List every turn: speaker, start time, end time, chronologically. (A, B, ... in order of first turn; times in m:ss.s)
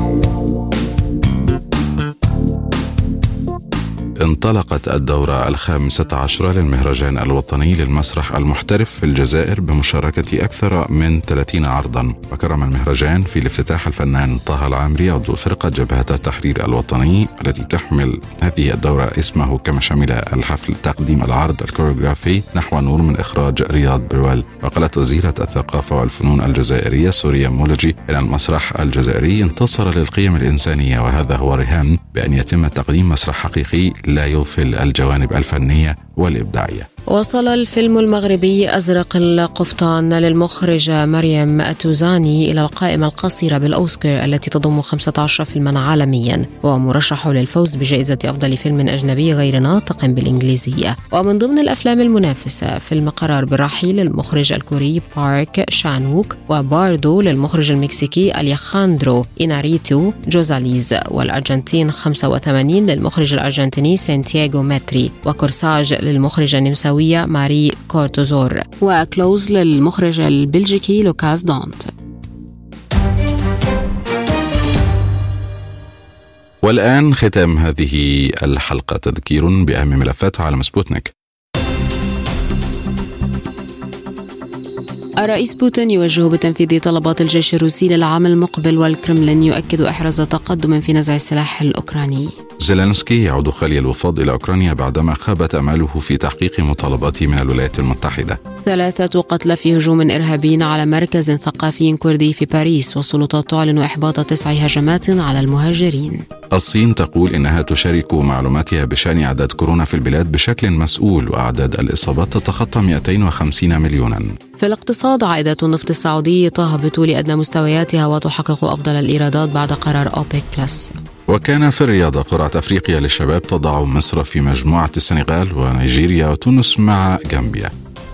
0:04.2-0:36.9 A
0:37.1-1:11.9 B
1:16.6-1:21.1 A
1:25.2-1:32.4 B
1:32.6-1:38.4 A
1:38.6-1:46.2 B
1:46.5-1:54.4 A
1:54.6-2:01.0 B
2:01.3-2:07.7 A